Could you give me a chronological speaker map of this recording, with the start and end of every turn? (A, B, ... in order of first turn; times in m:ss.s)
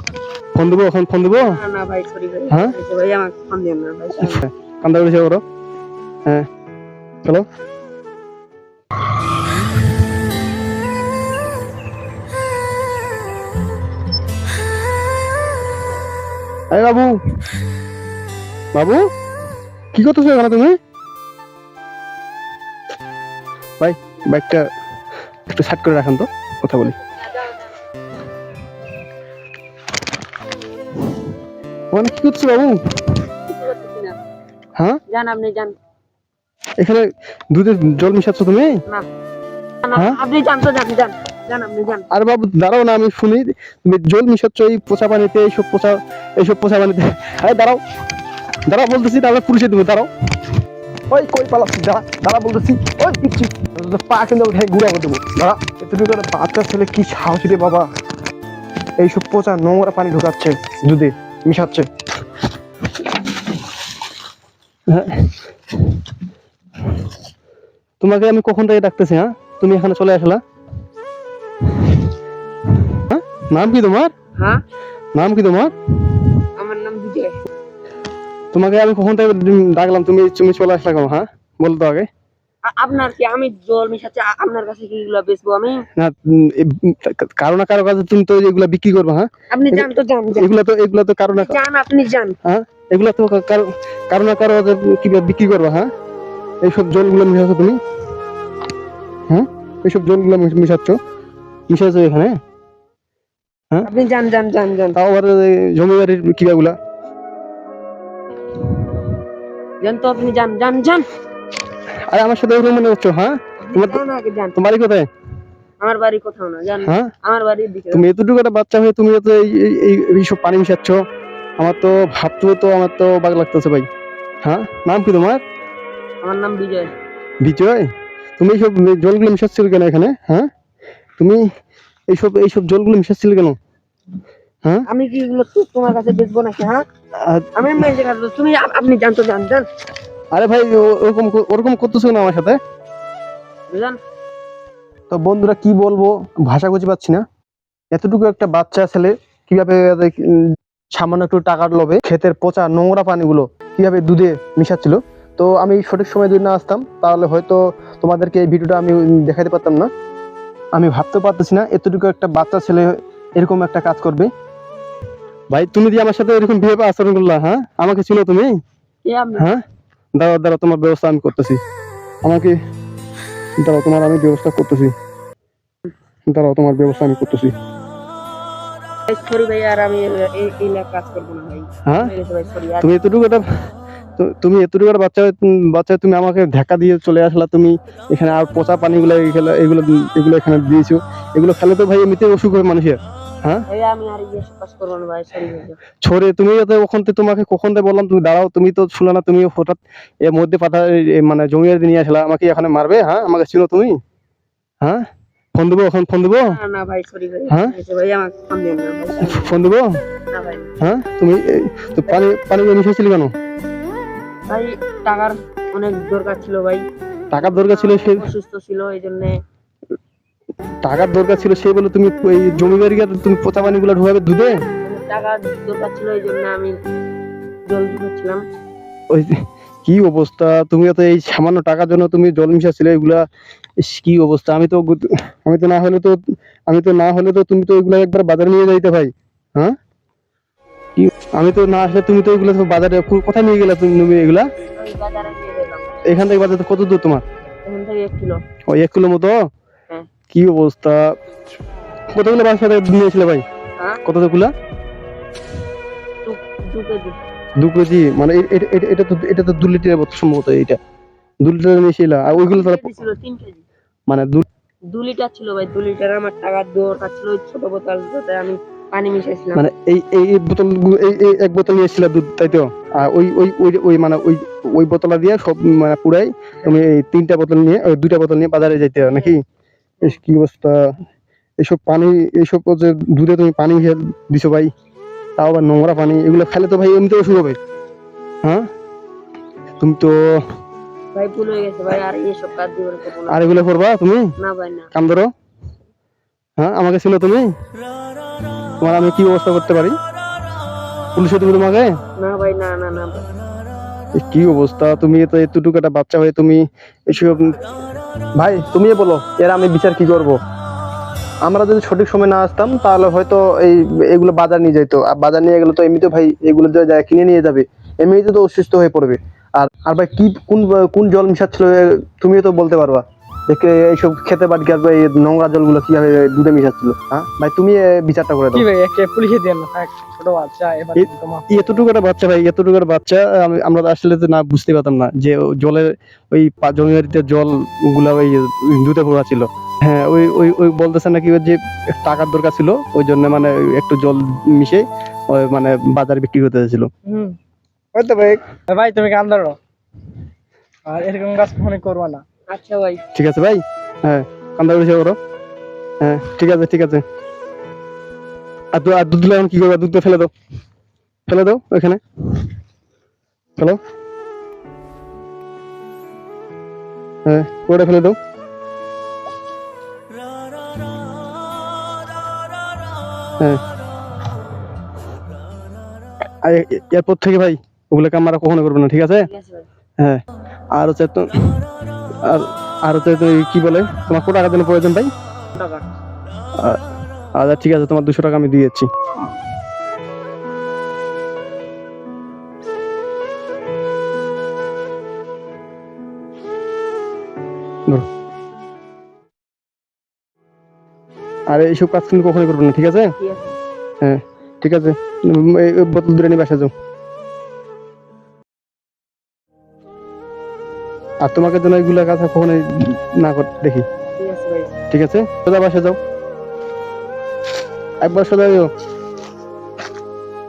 0:00.6-0:01.6 A
0:01.3-0:04.4 B
0:02.5-0:02.8 A
0:04.2-0:05.4 A
0:16.7-0:17.2 A
0:18.7-0:19.0 A
0:19.9-0:20.8 A
0:23.8-0:24.7 A
0:25.5-0:27.0 A
0:31.9-0:33.1 A
0:33.5-0:34.2 B
0:35.1-0:35.8 B
0:36.8-0:38.8 A
0:39.8-0:42.1 B
0:40.0-0:40.2 A
0:42.1-0:47.8 A
0:48.7-0:50.1 A
0:51.1-0:57.9 A
0:59.0-1:01.9 A
1:04.9-1:06.0 A
1:08.0-1:10.4 A
1:11.7-1:12.1 A
1:12.7-1:14.1 A
1:14.4-1:14.6 B
1:15.2-1:16.2 A
1:16.6-1:17.4 B
1:18.5-1:22.1 A
1:22.6-1:25.9 B
1:26.0-1:31.6 A
1:29.5-1:30.5 B
1:31.3-1:32.4 B
1:32.4-1:35.9 A
1:36.6-1:37.8 A
1:39.3-1:41.0 A
1:41.7-1:42.4 A
1:43.8-1:45.0 B
1:45.0-1:46.8 A
1:49.8-1:51.1 B
1:52.1-1:54.0 A
1:53.6-1:54.6 B
1:54.6-1:55.1 A
1:55.8-1:58.1 B
1:56.8-1:57.1 A
1:57.9-2:01.0 A
2:01.6-2:03.9 A
2:04.4-2:05.4 A
2:06.2-2:06.9 B
2:07.4-2:10.5 A
2:12.1-2:13.6 A
2:14.9-2:16.8 B
2:17.2-2:17.8 A
2:17.6-2:19.7 B
2:20.3-2:22.6 A
2:23.7-2:24.0 B
2:25.1-2:27.2 A
2:27.9-2:39.9 A
2:40.8-2:44.3 A
2:45.5-2:48.5 A
2:49.0-2:49.5 B
2:50.2-2:51.6 A
2:52.2-2:52.6 A
2:53.6-2:54.9 A
2:56.3-2:57.5 A
2:59.1-3:02.9 B
3:01.9-3:02.1 A
3:02.8-3:03.5 A
3:04.2-3:13.6 A
3:13.7-3:15.8 B
3:16.0-3:24.0 A
3:24.8-3:26.5 A
3:26.4-3:29.5 B
3:27.5-3:27.8 A
3:29.2-3:30.0 A
3:30.3-3:30.7 B
3:30.8-3:33.3 A
3:34.5-3:36.8 B
3:37.3-3:38.2 A
3:37.4-3:39.4 B
3:40.8-3:44.6 A
3:44.8-3:46.8 B
3:47.7-3:48.4 B
3:49.1-3:53.2 A
3:53.8-3:59.8 A
4:01.0-4:04.5 A
4:04.8-4:06.0 B
4:06.1-4:07.2 A
4:07.6-4:08.4 B
4:08.7-4:09.5 A
4:10.3-4:11.2 A
4:12.1-4:13.4 A
4:14.0-4:14.5 A
4:16.2-4:17.2 B
4:17.6-4:20.8 A
4:21.4-4:22.9 A
4:22.3-4:23.6 B
4:24.1-4:24.4 A
4:24.9-4:29.7 B
4:29.6-4:39.4 A
4:40.0-4:41.0 A
4:41.6-4:44.7 A
4:45.4-4:47.6 A
4:48.4-4:48.7 A
4:49.8-4:50.4 A
4:51.1-4:53.5 B
4:53.3-4:54.3 A
4:54.4-4:54.9 B
4:54.9-4:55.3 A
4:56.6-4:57.5 A
4:58.8-5:00.0 A
5:01.2-5:02.0 A
5:02.2-5:03.3 B
5:04.2-5:07.6 A
5:08.4-5:10.4 A
5:11.4-5:28.7 A
5:28.6-5:31.8 C
5:31.0-5:46.9 A
5:47.1-5:47.4 C
5:47.9-5:49.6 C
5:50.9-5:52.2 C
5:52.5-5:53.0 B
5:53.1-5:55.2 A
5:56.0-5:57.0 A
5:58.7-6:00.3 A
6:01.3-6:02.5 A
6:07.3-6:08.2 A
6:16.4-6:19.3 A
6:19.2-6:19.7 B
6:20.8-6:21.6 A
6:22.2-6:25.1 A
6:25.6-6:25.8 C
6:27.4-6:28.9 A
6:41.5-6:43.1 A
6:43.2-6:43.6 B
6:44.0-6:46.7 A
6:51.2-6:53.9 A
6:54.2-6:54.7 B
6:54.9-6:56.0 A
6:58.0-6:58.7 A